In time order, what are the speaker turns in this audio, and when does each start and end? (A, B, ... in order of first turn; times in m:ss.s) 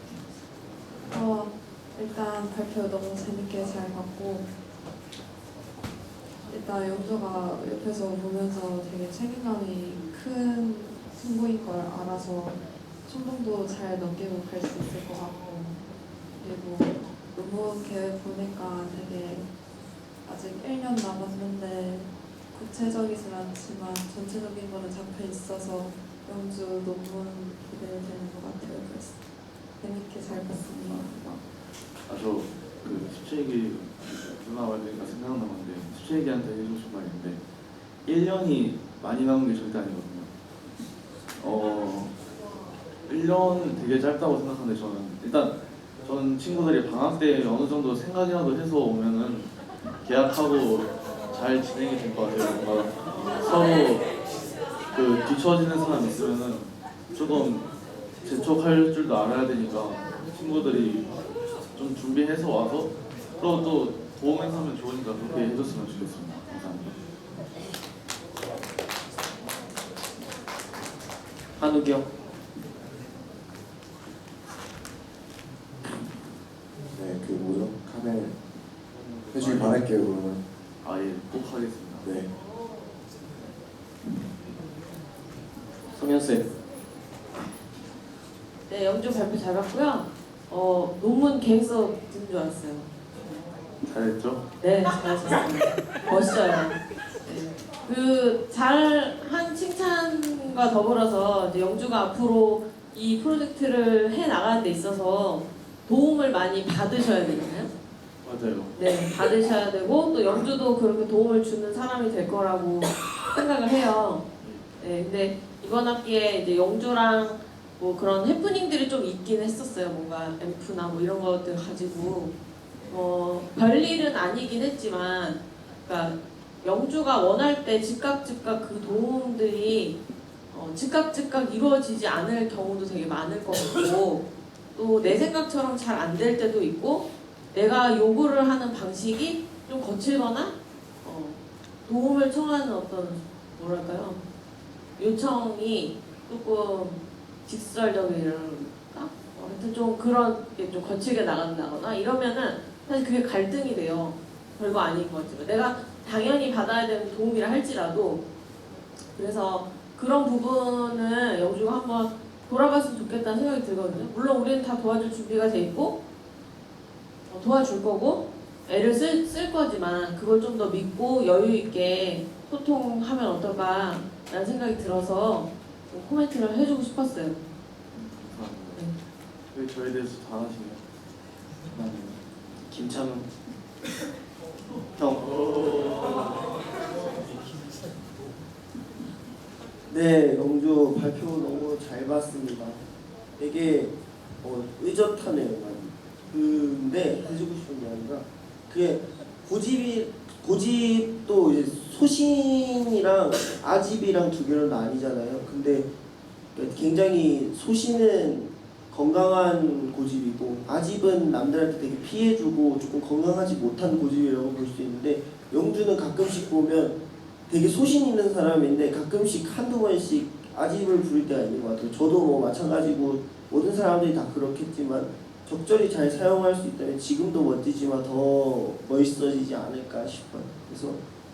0:01.1-0:04.5 A
0:06.5-0:15.8 A
0:16.4-0:19.5 A
0:20.2-0:29.2 A
0:29.8-0:31.4 A
0:32.1-0:37.4 B
0:38.1-0:40.3 B
0:41.4-0:42.1 B
0:43.1-0:49.5 B
0:50.0-0:54.0 B
0:54.9-0:57.7 B
0:58.2-1:01.2 B
1:01.7-1:07.0 B
1:11.6-1:12.1 C
1:16.9-1:18.4 D
1:19.1-1:19.8 B
1:19.3-1:20.4 D
1:20.8-1:22.1 B
1:26.0-1:26.5 C
1:28.7-1:33.4 E
1:33.8-1:34.4 B
1:34.6-1:47.7 E
1:48.2-1:48.7 B
1:48.8-1:54.2 E
1:54.8-2:02.3 E
2:02.9-2:10.0 E
2:10.5-2:24.2 E
2:25.0-2:38.2 E
2:39.1-2:46.0 E
2:47.3-2:57.4 E
2:57.9-2:58.9 B
2:59.5-3:00.8 B
3:01.8-3:02.1 B
3:01.8-3:02.1 C
3:02.6-3:03.3 C
3:05.0-3:05.3 C
3:09.9-3:12.8 F
3:13.4-3:25.9 F
3:26.6-3:51.0 F